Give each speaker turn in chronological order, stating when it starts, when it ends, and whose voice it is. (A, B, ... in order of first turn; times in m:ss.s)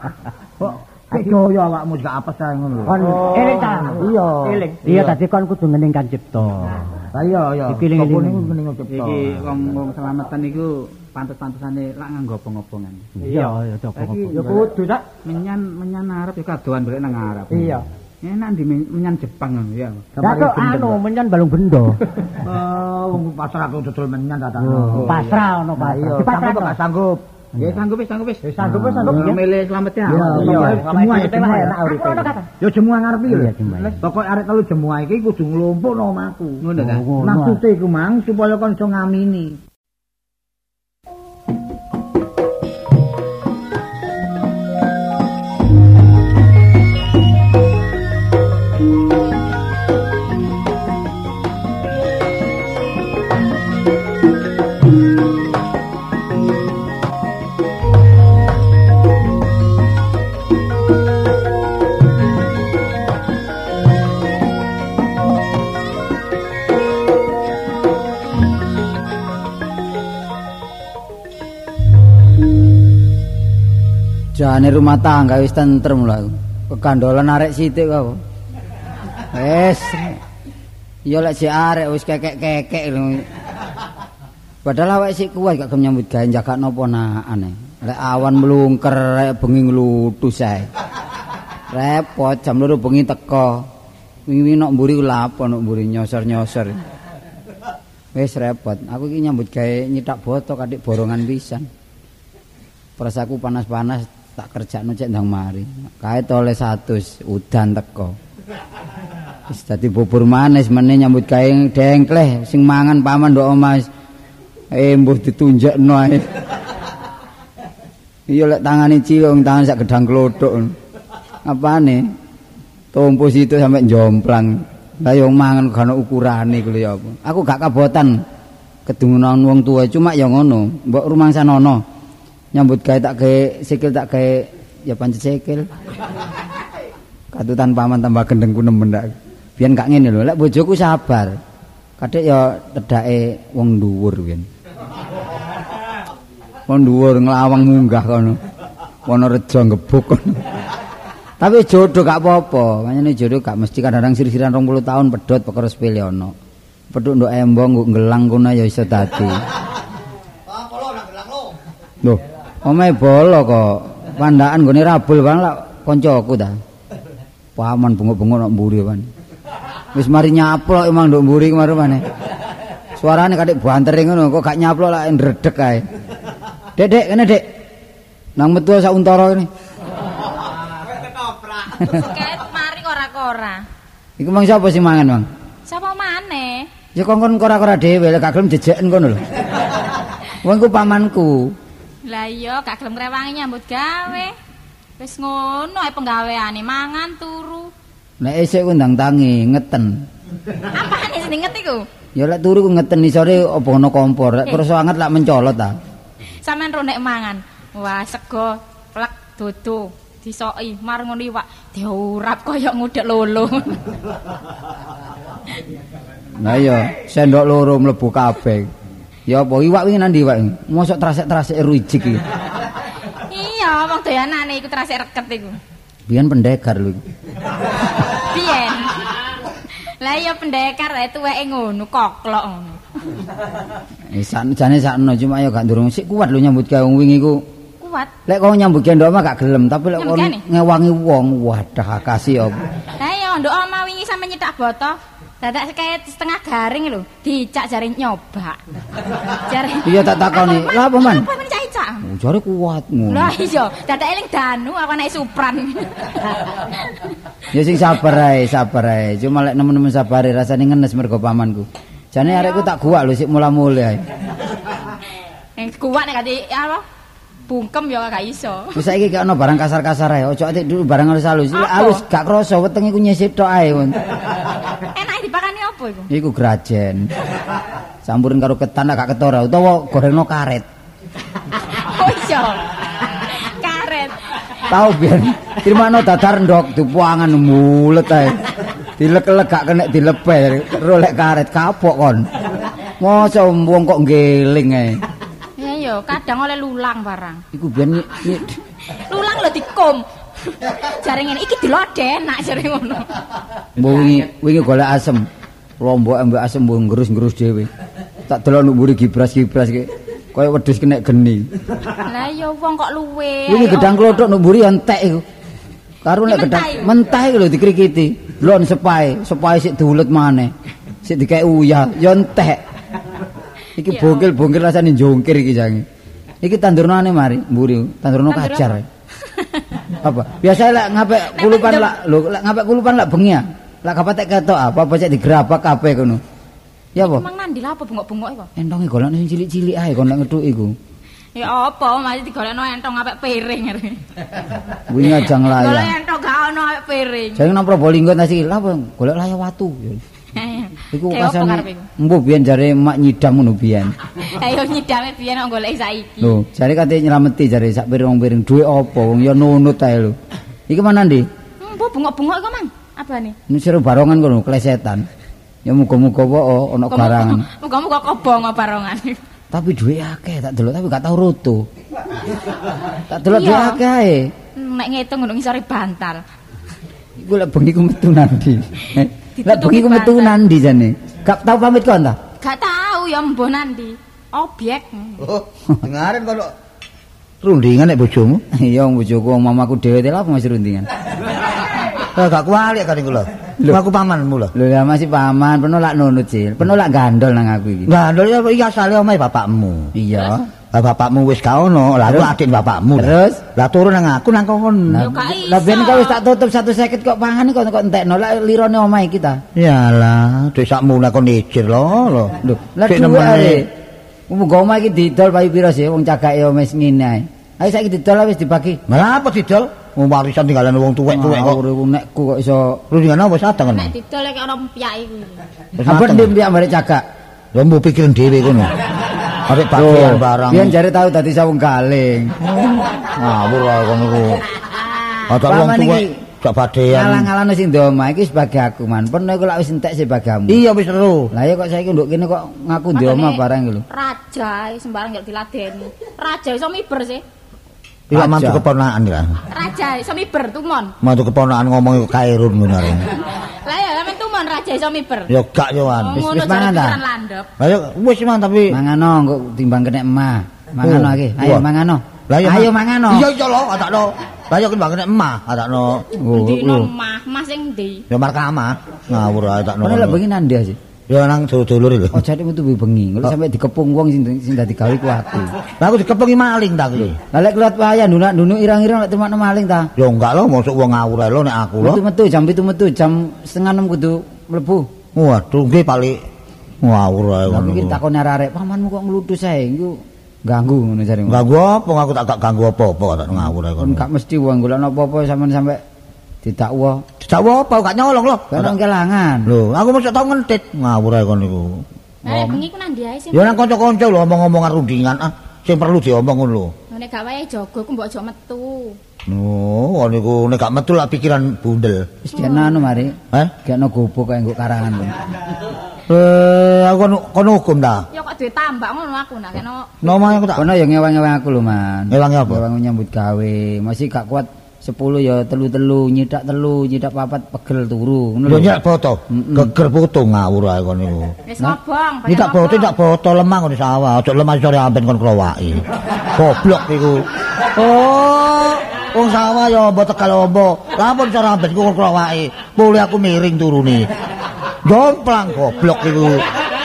0:00.6-0:03.0 A
0:02.8-0:04.1 B
0:03.0-0:03.9 C
0:03.9-0:04.6 A
0:04.4-0:04.8 C
0:04.8-0:07.1 B
0:04.8-0:05.1 D
0:07.1-0:09.8 A
0:07.7-0:08.5 B
0:08.9-0:14.7 D
0:13.2-0:14.4 B
0:13.2-0:13.5 C
0:14.3-0:15.0 C
0:15.2-0:20.1 D
0:17.5-0:17.8 C
0:20.2-0:20.4 A
0:20.2-0:21.0 C
0:20.2-0:22.0 B
0:22.4-0:27.8 A
0:24.6-0:26.8 B
0:27.6-0:30.8 D
0:28.4-0:29.2 C
0:28.6-0:29.3 A
0:28.6-0:29.4 B
0:30.0-0:31.8 A
0:30.3-0:32.3 C
0:30.4-0:32.5 B
0:32.6-0:39.6 A
0:33.3-0:34.0 B
0:36.8-0:37.6 B
1:14.3-1:18.2 E
1:19.3-1:20.2 E
1:21.0-1:23.2 E
1:24.6-1:30.7 E
1:31.7-1:33.7 E
1:34.3-1:36.8 E
1:38.1-1:41.7 E
1:43.0-1:48.2 E
1:49.5-1:53.9 E
1:54.7-1:56.3 E
1:58.3-2:00.7 E
2:01.4-2:02.0 E
2:02.9-2:08.1 E
2:08.9-2:11.8 E
2:12.5-2:15.7 E
2:17.3-2:21.4 E
2:22.0-2:24.5 E
2:26.7-2:28.4 E
2:29.1-2:30.4 E
2:31.4-2:36.3 E
2:36.9-2:39.4 E
2:40.5-2:41.5 A
2:42.0-2:46.6 E
2:47.6-2:49.1 E
2:49.9-2:52.0 E
2:53.0-2:55.8 E
2:56.8-2:57.4 E
2:58.4-2:59.5 E
3:01.8-3:03.6 F
3:04.2-3:05.2 E
3:05.7-3:06.7 F
3:06.9-3:09.2 E
3:10.4-3:11.5 E
3:12.0-3:14.3 F
3:15.0-3:17.7 F
3:18.2-3:19.9 E
3:20.7-3:21.9 F
3:22.2-3:25.7 E
3:26.4-3:34.1 F
3:36.4-3:38.7 E
3:39.3-3:42.2 E
3:43.1-3:45.6 F
3:46.1-3:47.0 E
3:48.1-3:49.1 F
3:50.0-3:52.8 F
3:54.1-3:57.4 E
3:57.8-3:58.1 F
3:58.3-4:02.6 E
4:00.0-4:00.4 F
4:03.0-4:08.6 F
4:09.2-4:12.0 F
4:09.8-4:11.3 E
4:12.0-4:13.3 E
4:13.1-4:17.1 F
4:17.5-4:24.0 E
4:22.2-4:22.7 F
4:25.6-4:26.8 F
4:27.5-4:28.8 F
4:28.7-4:34.0 E
4:31.5-4:32.0 F
4:34.8-4:36.1 F
4:36.1-4:37.1 E
4:38.0-4:40.6 E
4:41.6-4:44.2 F
4:44.7-4:48.4 E
4:49.0-4:52.2 E
4:53.0-4:55.0 E
4:55.6-4:57.4 F
4:57.5-4:58.6 E
4:58.9-5:03.1 F
5:03.8-5:05.2 E
5:03.8-5:04.3 F
5:05.8-5:07.7 E
5:08.3-5:11.5 E
5:11.9-5:14.2 F
5:13.5-5:15.2 E
5:16.0-5:20.5 E
5:16.3-5:16.9 F
5:21.0-5:22.6 E
5:23.8-5:25.8 E
5:23.8-5:24.3 F
5:26.4-5:28.8 E
5:28.3-5:29.6 F
5:30.0-5:36.2 E
5:31.3-5:31.9 F
5:37.0-5:37.2 E
5:37.0-5:38.5 F
5:38.6-5:40.7 E
5:41.3-5:44.0 F
5:44.9-5:45.9 E
5:45.0-5:47.5 F
5:47.4-5:50.0 E
5:50.3-5:51.9 F
5:50.9-5:53.9 E
5:54.2-5:56.4 F
5:56.2-6:00.2 E
6:00.7-6:01.2 E
6:01.6-6:03.4 F
6:03.5-6:05.0 E
6:05.6-6:07.4 E
6:06.9-6:09.2 F
6:09.5-6:11.6 E
6:13.1-6:14.3 E
6:13.3-6:13.8 F
6:14.6-6:16.2 F
6:17.2-6:22.2 E
6:19.4-6:20.3 F
6:22.4-6:25.2 F
6:25.2-6:26.5 A
6:27.4-6:28.4 A
6:28.6-6:30.9 E
6:32.0-6:34.5 A
6:34.5-6:37.9 E
6:37.9-6:39.9 A
6:39.9-6:40.5 E
6:40.7-6:45.1 A
6:43.0-6:43.4 E
6:44.9-6:46.2 F
6:44.9-6:49.4 E
6:49.5-6:53.6 A
6:52.4-6:53.7 E
6:54.3-6:58.8 E
6:58.9-7:01.6 A
7:01.1-7:02.8 E
7:02.9-7:03.9 A
7:03.7-7:05.4 F
7:05.8-7:06.3 A
7:05.8-7:07.0 E
7:07.5-7:10.8 A
7:09.7-7:12.5 E
7:12.8-7:14.4 A
7:15.3-7:17.3 A
7:15.4-7:16.1 E
7:16.9-7:20.6 E
7:20.5-7:21.3 A
7:21.3-7:23.8 E
7:22.9-7:27.2 F
7:28.1-7:29.4 A
7:28.1-7:28.6 E
7:29.5-7:30.9 F
7:31.0-7:33.1 A
7:33.2-7:35.3 F
7:35.3-7:36.2 A
7:35.9-7:37.5 F
7:36.1-7:37.0 E
7:37.6-7:38.8 A
7:38.7-7:43.2 E
7:40.8-7:41.6 A
7:42.3-7:46.1 A
7:46.2-7:46.9 E
7:46.3-7:48.0 F
7:48.1-7:50.2 A
7:49.8-7:50.8 E
7:51.1-7:52.2 A
7:52.1-7:55.5 E
7:55.7-7:57.2 A
7:57.3-7:59.9 E
8:00.0-8:02.0 A
8:01.8-8:04.9 E
8:05.1-8:06.2 A
8:06.8-8:08.0 A
8:07.5-8:11.4 E
8:11.3-8:14.1 A
8:13.8-8:15.8 E
8:16.4-8:17.0 E
8:17.2-8:18.8 A
8:18.5-8:19.5 E
8:19.4-8:22.6 A
8:22.2-8:23.6 F
8:23.3-8:26.7 A
8:26.9-8:29.0 F
8:29.3-8:32.1 A
8:32.3-8:33.1 E
8:32.3-8:33.0 F
8:33.6-8:35.2 E
8:36.1-8:38.0 A
8:38.1-8:40.2 F
8:40.0-8:40.7 A
8:40.5-8:48.7 E
8:42.1-8:42.6 A
8:48.4-8:51.4 A
8:49.3-8:49.7 E
8:51.5-8:52.9 F
8:52.3-9:04.1 A
9:04.8-9:06.5 A